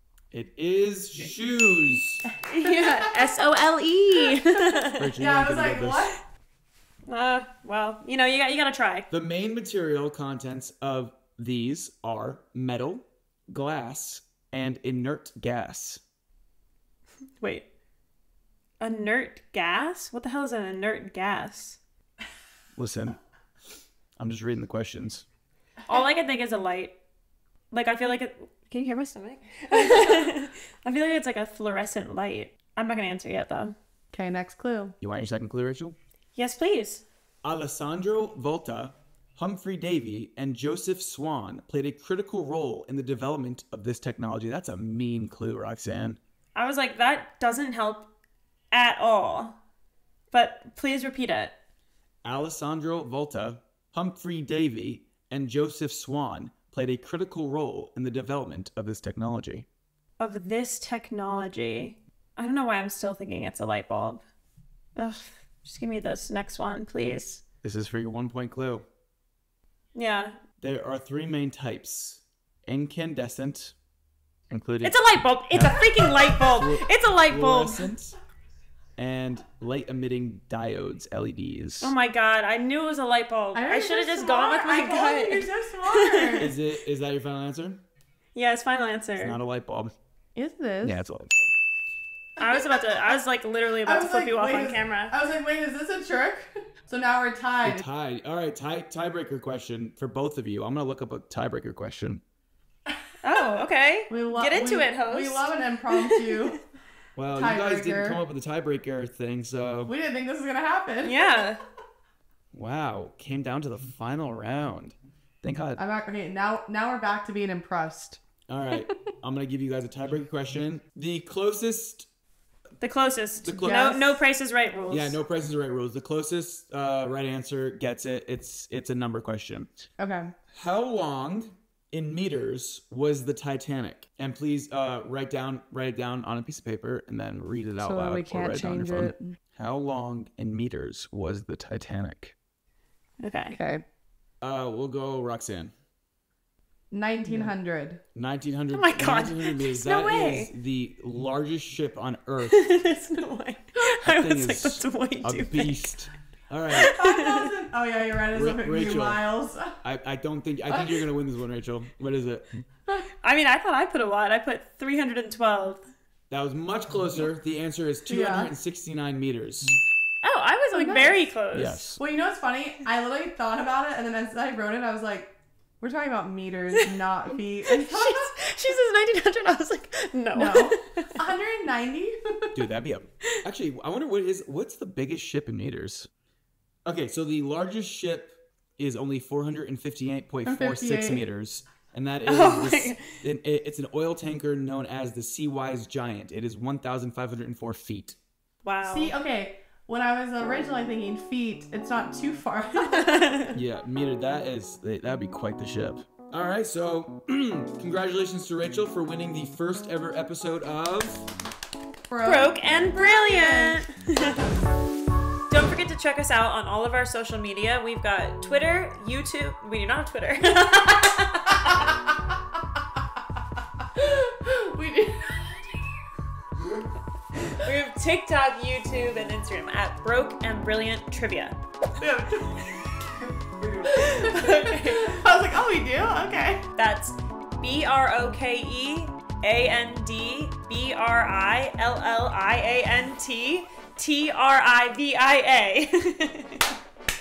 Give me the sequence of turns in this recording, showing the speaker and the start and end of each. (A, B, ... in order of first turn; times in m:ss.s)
0:00.3-0:02.2 A
0:02.5-0:05.1 B
0:02.6-0:03.1 C
0:05.0-0:06.1 A
0:05.2-0:06.2 C
0:07.1-0:09.1 B
0:09.1-0:16.0 A
0:17.4-0:17.7 B
0:18.8-0:21.8 B
0:22.8-0:23.2 A
0:24.2-0:25.2 A
0:25.9-0:27.0 B
0:27.7-0:33.7 B
0:34.1-0:35.0 C
0:35.0-0:36.0 A
0:36.3-0:37.0 B
0:37.4-0:46.2 A
0:46.6-0:48.1 B
0:48.7-0:49.6 B
0:50.3-0:51.5 B
0:52.2-0:59.7 A
1:00.2-1:04.2 B
1:05.0-1:07.4 B
1:07.6-1:08.8 A
1:09.9-1:10.4 B
1:10.6-1:13.7 A
1:14.5-1:18.2 A
1:14.8-1:17.9 B
1:19.0-1:21.9 A
1:21.8-1:26.5 B
1:23.5-1:26.5 C
1:26.4-1:27.8 A
1:28.3-1:29.4 B
1:29.2-1:29.9 A
1:30.4-1:31.0 C
1:30.8-1:31.5 A
1:32.4-1:35.1 B
1:33.8-1:37.8 C
1:37.6-1:42.2 A
1:43.2-1:46.5 B
1:44.1-1:46.6 C
1:47.2-1:49.9 A
1:47.3-1:48.2 C
1:49.9-1:51.3 C
1:51.0-1:51.6 B
1:52.5-1:55.8 A
1:55.8-1:58.2 C
1:58.5-2:02.1 A
2:02.8-2:05.2 B
2:03.4-2:03.8 A
2:03.5-2:04.2 C
2:04.9-2:09.7 A
2:10.0-2:10.3 C
2:10.5-2:22.3 A
2:17.8-2:19.4 C
2:23.2-2:23.6 B
2:23.5-2:23.8 C
2:24.4-2:25.7 A
2:26.9-2:28.0 C
2:28.1-2:32.7 A
2:28.7-2:30.5 B
2:32.4-2:35.9 B
2:34.0-2:36.9 A
2:36.7-2:37.5 B
2:36.8-2:39.8 C
2:38.3-2:39.3 A
2:39.8-2:42.6 A
2:40.7-2:41.0 C
2:43.2-2:45.8 B
2:46.3-2:49.8 A
2:48.1-2:48.5 C
2:50.2-2:51.9 B
2:50.7-2:51.2 C
2:51.5-2:52.0 A
2:52.0-2:58.3 C
2:57.7-3:01.1 B
3:00.3-3:02.6 C
3:02.5-3:06.1 A
3:06.8-3:18.2 A
3:10.4-3:11.2 C
3:12.2-3:13.0 B
3:18.6-3:19.1 B
3:18.8-3:23.3 C
3:22.8-3:23.6 B
3:23.5-3:31.3 A
3:32.1-3:33.8 C
3:32.2-3:34.4 B
3:35.5-3:41.8 B
3:43.9-3:45.8 C
3:47.5-3:51.6 B
3:52.0-3:52.7 C
3:53.2-3:54.1 A
3:53.9-3:56.7 C
3:53.9-3:55.2 B
3:56.8-4:06.7 B